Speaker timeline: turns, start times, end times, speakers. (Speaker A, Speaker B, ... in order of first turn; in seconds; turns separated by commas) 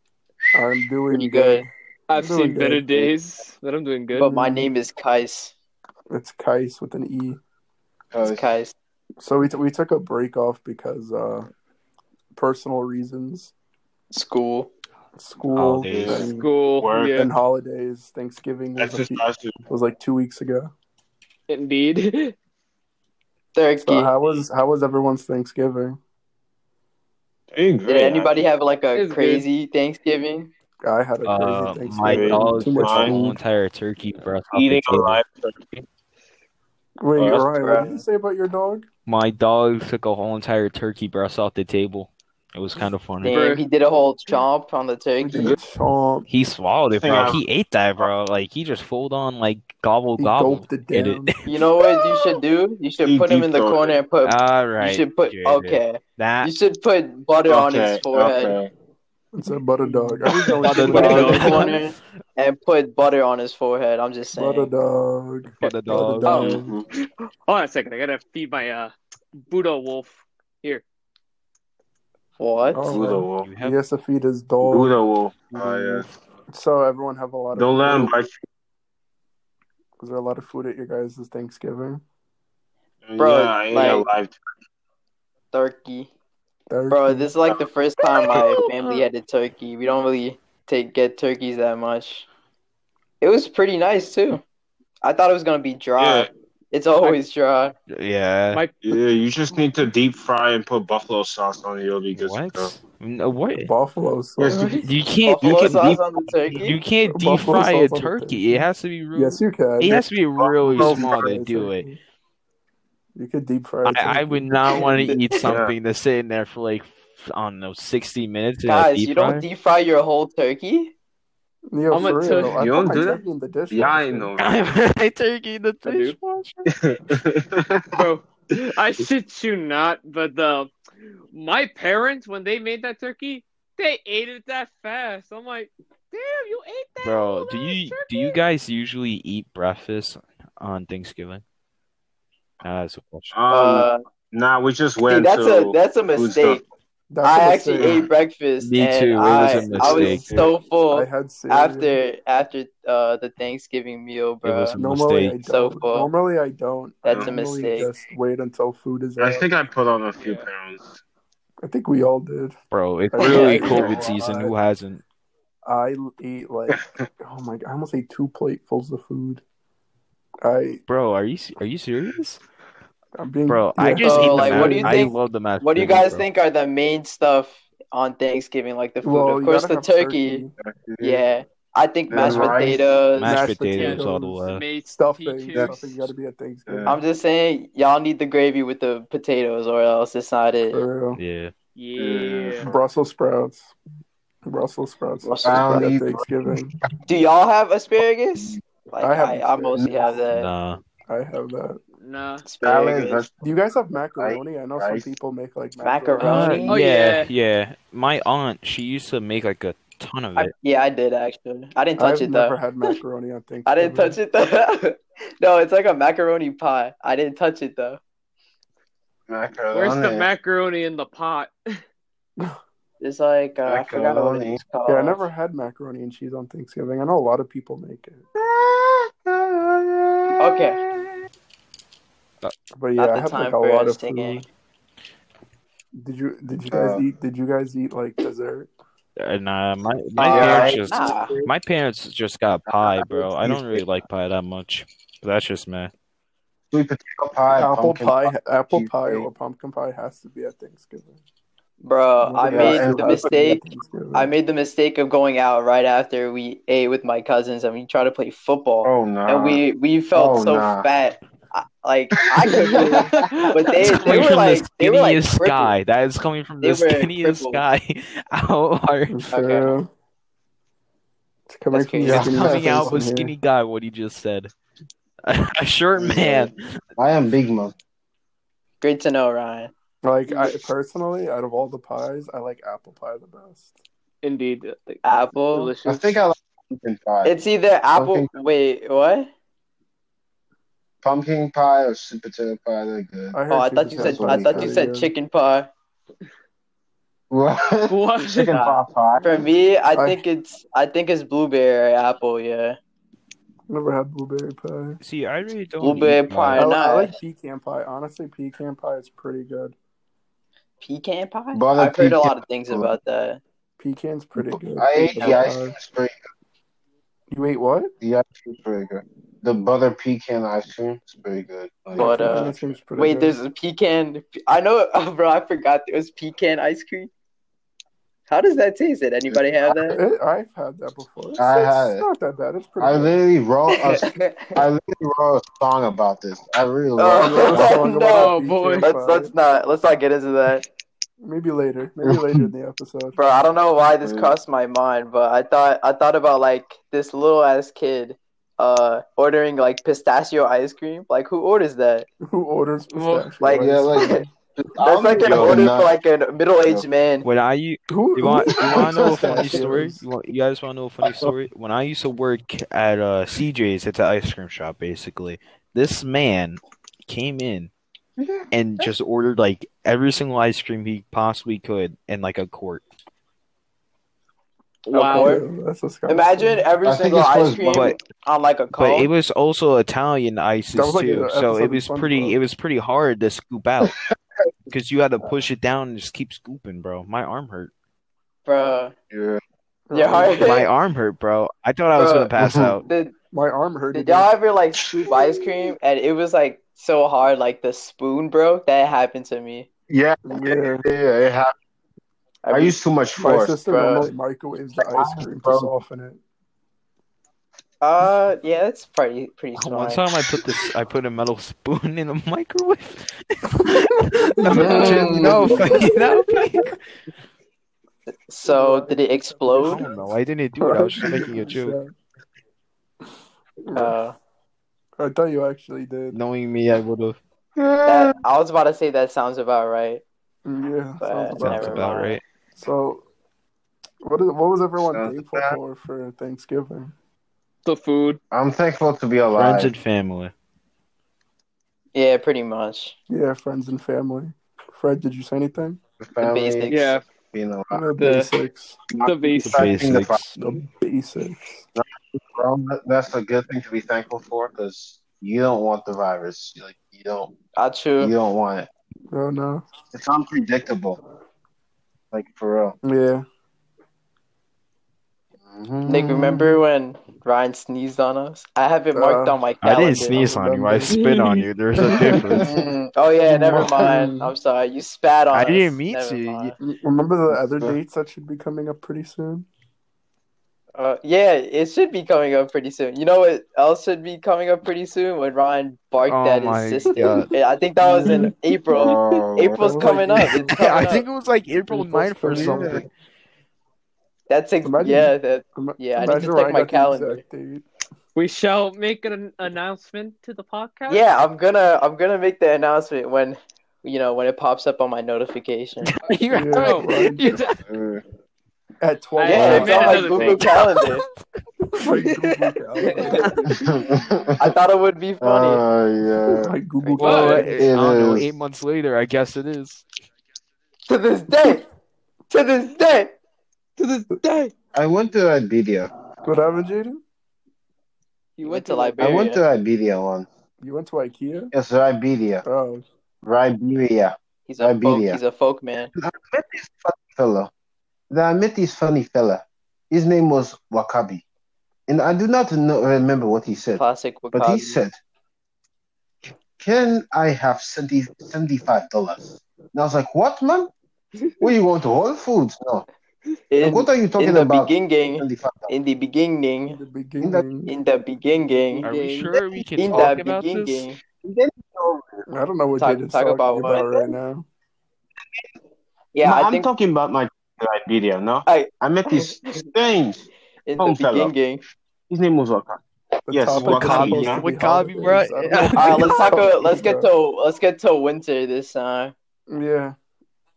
Speaker A: 0.5-3.1, Speaker B: 1.1-1.7, Speaker C: 2.1-4.3, Speaker B: 4.1-5.5, Speaker A: 4.2-4.7, Speaker A: 6.1-7.4, Speaker D: 8.1-8.4, Speaker B: 8.2-8.7, Speaker A: 9.2-11.5, Speaker A: 12.3-13.5, Speaker B: 14.1-14.7, Speaker A: 15.2-16.5, Speaker E: 15.5-16.3, Speaker D: 15.9-16.3, Speaker C: 16.3-17.3, Speaker D: 16.8-17.2, Speaker A: 17.0-20.7, Speaker D: 18.8-19.6, Speaker C: 21.5-22.3, Speaker B: 23.6-24.1, Speaker A: 23.8-26.0, Speaker D: 27.5-28.5, Speaker B: 27.9-30.5, Speaker C: 28.9-29.5, Speaker A: 30.8-33.2, Speaker E: 31.2-35.2, Speaker D: 32.0-33.4, Speaker D: 34.5-35.7, Speaker A: 37.0-38.9, Speaker D: 37.2-38.0, Speaker E: 39.1-43.4, Speaker B: 43.2-45.5, Speaker C: 43.3-43.6, Speaker A: 45.2-46.3, Speaker D: 45.3-45.6, Speaker E: 46.3-51.4, Speaker D: 47.0-47.4, Speaker A: 50.2-51.3, Speaker B: 51.5-58.6, Speaker D: 53.0-54.0, Speaker E: 54.2-56.5, Speaker D: 57.5-58.7, Speaker A: 59.3-61.7, Speaker E: 60.6-61.9, Speaker C: 60.7-61.8, Speaker B: 60.8-64.7, Speaker A: 64.3-66.8, Speaker E: 65.6-66.5, Speaker C: 65.6-70.8, Speaker D: 66.4-66.8, Speaker B: 72.4-72.8, Speaker A: 72.7-75.0, Speaker D: 72.9-73.5, Speaker E: 73.4-73.8, Speaker D: 74.7-76.1, Speaker E: 75.5-76.1, Speaker A: 76.5-78.1, Speaker D: 77.5-78.4, Speaker A: 80.0-82.0, Speaker D: 83.1-84.3, Speaker B: 83.2-84.1, Speaker B: 85.5-86.1, Speaker A: 86.7-87.3, Speaker B: 86.9-92.3, Speaker C: 88.2-89.0, Speaker B: 93.2-94.4, Speaker B: 95.0-97.7, Speaker D: 96.0-96.3, Speaker E: 97.9-98.6, Speaker C: 98.5-98.9, Speaker D: 98.8-102.7, Speaker E: 102.1-103.7, Speaker A: 103.6-104.7, Speaker D: 104.4-104.8, Speaker B: 104.5-106.8, Speaker E: 104.8-106.0, Speaker D: 105.4-106.0, Speaker E: 106.6-111.9, Speaker A: 107.1-110.0, Speaker D: 109.9-111.3, Speaker A: 110.7-112.0, Speaker A: 113.2-115.1, Speaker E: 113.8-119.5, Speaker B: 114.8-115.3, Speaker D: 115.4-115.7, Speaker B: 118.7-120.9, Speaker A: 121.7-124.3, Speaker C: 121.9-122.6, Speaker D: 122.5-124.7, Speaker E: 124.4-126.7, Speaker C: 125.8-126.2, Speaker D: 126.7-128.0, Speaker C: 127.9-130.7, Speaker C: 131.3-138.4, Speaker E: 137.0-141.4, Speaker E: 142.6-143.3, Speaker D: 143.3-146.6, Speaker B: 143.5-144.0, Speaker B: 145.0-146.6, Speaker A: 147.1-148.0, Speaker B: 147.2-154.8, Speaker E: 148.6-150.5, Speaker A: 149.4-150.3, Speaker A: 150.9-152.0, Speaker E: 154.4-155.4, Speaker A: 154.8-159.5, Speaker B: 155.5-156.1, Speaker B: 157.0-157.9, Speaker D: 159.2-161.0, Speaker C: 160.2-160.5, Speaker A: 161.6-162.6, Speaker E: 162.7-165.0, Speaker A: 163.1-164.5, Speaker B: 163.2-163.5, Speaker C: 163.5-164.0, Speaker D: 163.6-164.1, Speaker A: 165.7-169.4, Speaker D: 166.7-167.0, Speaker A: 170.4-170.8, Speaker E: 170.9-172.4, Speaker A: 173.2-175.1, Speaker E: 173.5-176.3, Speaker B: 174.0-180.5, Speaker A: 179.0-180.5, Speaker D: 180.6-181.2, Speaker B: 181.0-183.4, Speaker D: 182.1-182.9, Speaker A: 182.2-182.6, Speaker E: 183.2-184.6, Speaker A: 183.2-187.0, Speaker C: 183.7-185.9, Speaker D: 186.7-186.9, Speaker B: 186.9-190.8, Speaker A: 190.7-191.2, Speaker E: 191.1-191.5, Speaker C: 191.8-192.7, Speaker D: 192.0-192.8, Speaker A: 192.6-193.7, Speaker A: 194.5-196.7, Speaker B: 195.2-195.8, Speaker D: 195.4-196.8, Speaker B: 197.1-200.5, Speaker A: 199.0-199.9, Speaker D: 199.8-200.1, Speaker E: 200.3-200.8, Speaker A: 201.1-201.8, Speaker C: 202.0-202.4, Speaker B: 202.4-203.3, Speaker D: 202.6-203.4, Speaker A: 203.4-206.8, Speaker D: 204.2-205.1, Speaker B: 205.8-206.8, Speaker E: 206.2-210.5, Speaker C: 206.7-207.3, Speaker B: 210.4-212.9, Speaker A: 212.0-214.2, Speaker B: 213.7-218.0, Speaker D: 219.3-220.3, Speaker C: 219.7-221.6, Speaker B: 223.0-225.3, Speaker D: 223.7-224.6, Speaker A: 224.9-228.2, Speaker D: 228.3-231.2, Speaker B: 230.4-230.8, Speaker A: 232.7-234.5, Speaker B: 233.0-234.4, Speaker A: 236.0-238.7, Speaker D: 236.7-237.1, Speaker E: 239.2-245.9, Speaker D: 240.2-241.5, Speaker B: 240.2-241.3, Speaker D: 242.7-243.8, Speaker D: 246.7-249.3, Speaker A: 247.5-251.2, Speaker B: 251.8-265.8, Speaker A: 252.2-254.3, Speaker D: 252.5-253.3, Speaker D: 258.8-259.6, Speaker D: 260.1-260.9, Speaker D: 262.4-263.5, Speaker C: 262.7-264.3, Speaker E: 263.8-269.2, Speaker B: 266.6-267.6, Speaker A: 269.1-269.9, Speaker B: 269.3-269.8, Speaker A: 271.5-273.3, Speaker B: 271.7-272.4, Speaker D: 272.0-273.0, Speaker E: 272.2-274.5, Speaker E: 275.2-276.6, Speaker D: 275.9-277.8, Speaker B: 278.8-279.7, Speaker A: 280.0-283.7, Speaker C: 284.2-286.2, Speaker B: 285.0-285.7, Speaker D: 285.8-287.3, Speaker B: 287.2-289.3, Speaker D: 287.9-288.3, Speaker D: 291.0-293.4, Speaker A: 293.3-295.1, Speaker B: 293.5-295.7, Speaker D: 293.9-294.7, Speaker D: 297.3-299.3, Speaker C: 297.9-298.6, Speaker B: 298.5-302.8, Speaker A: 299.9-300.2, Speaker A: 303.7-305.0, Speaker E: 305.0-306.7, Speaker B: 305.8-307.2, Speaker A: 306.6-309.8, Speaker B: 310.8-313.4, Speaker D: 311.5-312.9, Speaker A: 313.8-315.8, Speaker D: 314.4-316.2, Speaker A: 317.3-317.9, Speaker D: 318.0-322.7, Speaker A: 322.0-323.4, Speaker B: 322.0-327.1, Speaker B: 328.3-330.0, Speaker D: 329.3-330.0, Speaker A: 329.9-333.2, Speaker D: 331.4-332.1, Speaker D: 332.8-337.8, Speaker B: 333.7-334.7, Speaker B: 337.0-340.6, Speaker A: 337.2-339.3, Speaker C: 338.0-338.9, Speaker A: 341.2-343.2, Speaker D: 342.1-342.5, Speaker B: 343.2-352.1, Speaker D: 344.0-344.4, Speaker A: 352.2-354.3, Speaker C: 352.9-353.3, Speaker B: 353.4-354.2, Speaker D: 353.5-355.9, Speaker B: 354.8-357.3, Speaker E: 355.2-355.7, Speaker E: 357.2-367.7, Speaker A: 357.9-360.0, Speaker D: 358.6-359.6, Speaker D: 361.0-361.3, Speaker D: 368.2-368.9, Speaker E: 368.5-372.8, Speaker B: 374.9-375.4, Speaker C: 374.9-375.4, Speaker A: 375.1-376.6, Speaker B: 376.1-379.1, Speaker D: 376.8-378.0, Speaker E: 377.7-378.0, Speaker E: 378.8-383.9, Speaker A: 380.7-382.4, Speaker E: 384.7-387.7, Speaker B: 388.5-388.9, Speaker D: 389.1-389.4, Speaker A: 389.9-390.4, Speaker B: 389.9-390.7, Speaker E: 390.4-392.8, Speaker B: 392.0-392.3, Speaker D: 392.4-392.8, Speaker B: 392.9-393.1, Speaker A: 393.3-394.3, Speaker B: 393.9-399.7, Speaker D: 394.8-395.7, Speaker D: 399.9-401.5, Speaker A: 400.3-400.9, Speaker B: 402.4-402.8, Speaker D: 402.5-403.6, Speaker A: 403.2-406.2, Speaker B: 403.7-404.1, Speaker D: 404.8-405.7, Speaker B: 407.8-410.0, Speaker E: 409.6-416.8, Speaker A: 413.6-416.7, Speaker B: 414.5-415.5, Speaker D: 414.5-415.7, Speaker B: 418.3-419.9, Speaker A: 418.5-421.9, Speaker E: 419.6-421.8, Speaker A: 423.6-424.0, Speaker B: 423.8-424.2, Speaker A: 425.0-426.2, Speaker E: 426.1-427.2, Speaker D: 427.6-428.2, Speaker B: 427.9-430.0, Speaker A: 430.4-431.9, Speaker B: 431.0-432.2, Speaker E: 431.4-432.2, Speaker A: 432.6-433.1, Speaker A: 434.0-436.9, Speaker D: 434.8-435.6, Speaker C: 437.6-438.2, Speaker D: 438.3-439.7, Speaker E: 439.4-440.3, Speaker B: 441.9-442.9, Speaker A: 443.1-445.8, Speaker D: 446.0-446.8, Speaker B: 446.2-447.0, Speaker C: 446.7-447.0, Speaker D: 447.3-447.9, Speaker A: 447.7-448.8, Speaker C: 448.0-448.3, Speaker D: 448.9-450.2, Speaker C: 449.0-449.7, Speaker E: 449.5-450.4, Speaker A: 450.4-451.7, Speaker D: 451.8-457.3, Speaker B: 457.6-458.1, Speaker D: 458.0-458.7, Speaker A: 459.1-459.6, Speaker D: 459.9-461.0, Speaker D: 462.1-462.8, Speaker A: 462.8-463.2, Speaker D: 465.4-466.5, Speaker B: 465.9-470.2, Speaker A: 468.9-469.4, Speaker E: 469.6-472.6, Speaker A: 470.1-471.0, Speaker C: 470.9-471.4, Speaker A: 471.8-472.4, Speaker D: 472.3-472.6, Speaker B: 472.4-476.6, Speaker D: 473.3-474.1, Speaker A: 473.6-474.3, Speaker E: 475.3-476.5, Speaker A: 476.6-479.5, Speaker D: 477.3-477.8, Speaker B: 480.8-491.1, Speaker E: 486.0-487.3, Speaker A: 487.8-488.3, Speaker D: 488.7-489.7, Speaker A: 489.6-490.6, Speaker E: 490.5-492.9, Speaker A: 491.7-492.9, Speaker D: 492.3-492.9, Speaker B: 494.3-497.2, Speaker A: 494.6-497.7, Speaker C: 498.1-501.0, Speaker B: 500.9-505.9, Speaker E: 505.8-507.6, Speaker A: 506.3-507.3, Speaker C: 506.5-507.6, Speaker D: 507.7-508.0, Speaker A: 508.8-510.4, Speaker C: 509.2-510.5, Speaker B: 509.2-511.0, Speaker E: 509.4-511.1, Speaker A: 511.7-513.5, Speaker B: 512.8-513.4, Speaker C: 513.0-513.5, Speaker D: 513.5-514.6, Speaker B: 514.4-515.6, Speaker D: 515.2-516.5, Speaker A: 516.3-517.7, Speaker C: 517.0-517.6, Speaker E: 517.0-519.9, Speaker D: 517.6-518.3, Speaker B: 520.9-521.7, Speaker B: 522.3-523.2, Speaker C: 523.8-524.5, Speaker D: 524.7-525.9, Speaker A: 526.2-527.0, Speaker C: 528.4-529.3, Speaker B: 528.4-529.4, Speaker D: 529.0-530.3, Speaker A: 530.6-531.5, Speaker D: 531.5-532.4, Speaker A: 532.5-532.8, Speaker D: 533.2-535.2, Speaker B: 534.5-535.9, Speaker D: 536.0-537.5, Speaker D: 538.1-541.2, Speaker D: 541.9-543.8, Speaker B: 543.8-544.8, Speaker D: 544.3-545.0, Speaker D: 546.6-550.7, Speaker D: 551.4-552.9, Speaker B: 553.5-556.8, Speaker D: 553.6-555.7, Speaker A: 556.7-557.7, Speaker D: 557.2-557.5, Speaker B: 557.7-558.9, Speaker C: 558.8-559.4, Speaker E: 558.8-560.9, Speaker B: 559.8-561.0, Speaker D: 561.2-562.2, Speaker A: 562.3-564.5, Speaker B: 562.8-564.1, Speaker B: 566.1-566.7, Speaker D: 566.2-570.3, Speaker B: 568.5-569.7, Speaker B: 570.6-571.6, Speaker D: 570.8-571.3, Speaker D: 572.1-574.5, Speaker A: 573.3-577.1, Speaker E: 573.5-576.1, Speaker B: 575.8-579.1, Speaker A: 579.5-580.0